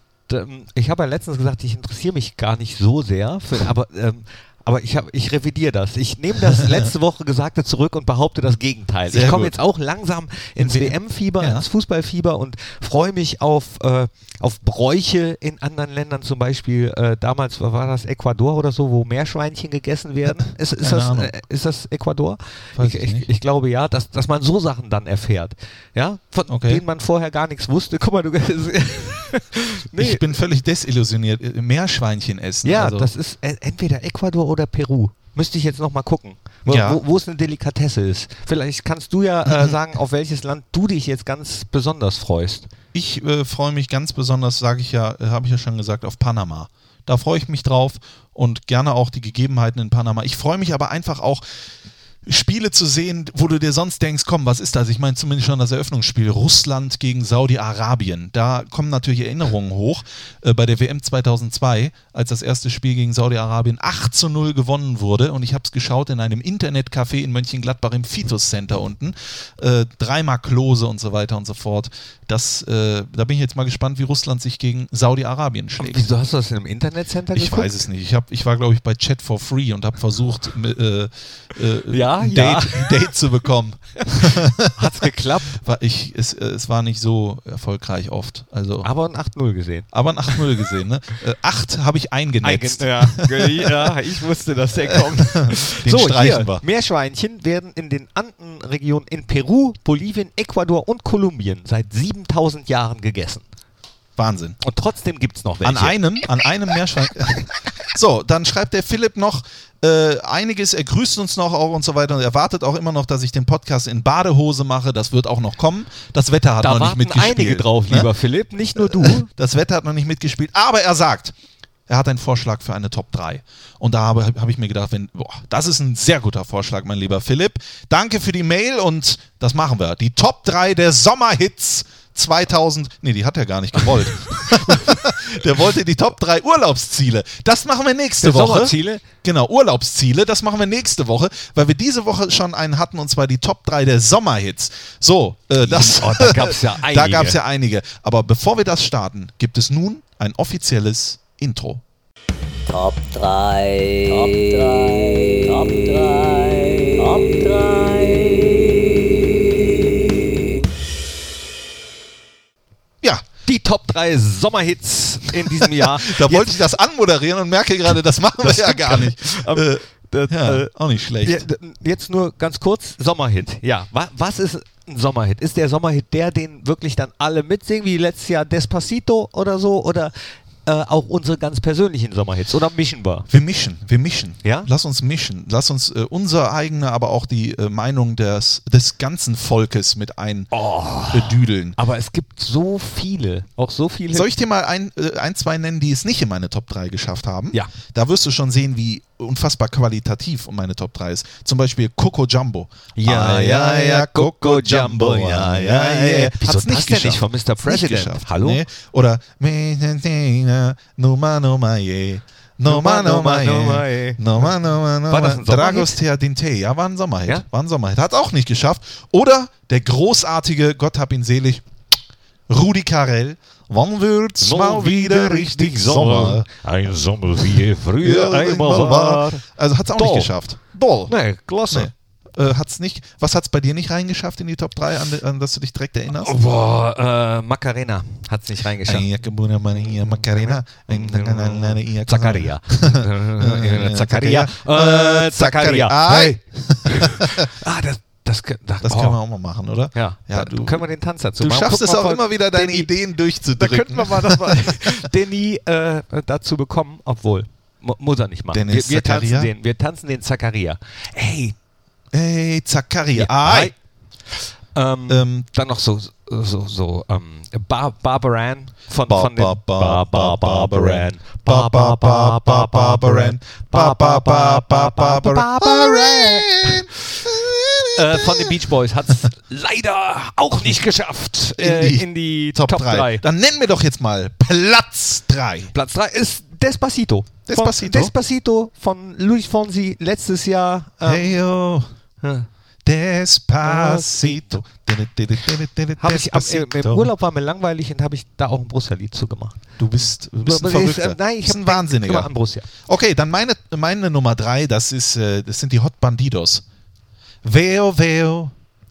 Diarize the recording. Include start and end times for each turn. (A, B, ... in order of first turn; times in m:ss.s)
0:00.3-0:30.3 A
0:06.5-0:06.9 B
0:09.1-0:09.6 B
0:10.6-0:11.6 B
0:20.8-0:21.3 B
0:22.8-0:23.3 B
0:26.5-0:26.8 B
0:30.0-0:33.1 B
0:32.6-0:42.7 A
0:36.7-0:37.0 B
0:39.5-0:39.8 B
0:42.9-0:51.4 B
0:52.3-1:16.1 B
1:15.8-1:17.8 A
1:17.4-1:28.9 B
1:21.9-1:23.1 A
1:24.0-1:25.6 A
1:28.8-1:30.4 A
1:29.9-1:33.9 B
1:32.4-1:43.4 A
1:34.9-1:36.6 B
1:44.2-1:44.6 B
1:44.6-1:46.2 A
1:45.6-1:58.1 B
1:56.6-1:59.3 A
1:58.8-2:01.4 B
2:01.9-2:31.8 B
2:14.1-2:15.0 A
2:18.2-2:19.0 A
2:25.6-2:27.4 A
2:32.7-2:40.6 C
2:43.4-2:46.6 A
2:45.5-2:51.4 B
2:48.4-2:50.7 A
2:51.2-3:00.1 A
3:00.6-3:03.3 A
3:03.3-3:10.5 B
3:04.4-3:04.7 A
3:10.5-3:14.3 A
3:11.1-3:11.8 B
3:14.1-3:41.6 B
3:23.0-3:28.6 A
3:32.6-3:34.6 A
3:35.1-3:36.0 A
3:42.5-3:46.5 B
3:44.4-3:49.4 A
3:48.0-3:51.1 B
3:50.0-3:50.3 A
3:51.1-3:51.9 A
3:51.7-3:56.4 B
3:56.1-3:59.1 A
3:58.8-4:07.5 B
3:59.8-4:09.2 A
4:08.8-4:10.8 B
4:09.9-4:12.9 A
4:11.4-4:15.1 B
4:13.6-4:21.6 A
4:18.5-4:19.5 B
4:22.1-4:23.7 B
4:23.1-4:23.8 A
4:24.8-4:36.9 A
4:25.1-4:25.5 B
4:29.1-4:38.6 B
4:38.0-4:43.2 A
4:41.6-4:45.7 B
4:45.7-4:51.4 A
4:47.5-4:48.1 B
4:51.0-4:51.9 B
4:52.2-4:52.5 A
4:52.8-4:57.1 B
4:53.6-4:54.6 A
4:56.0-4:59.6 A
4:59.8-5:02.3 B
5:00.4-5:02.7 A
5:02.8-5:06.6 B
5:07.4-5:08.5 B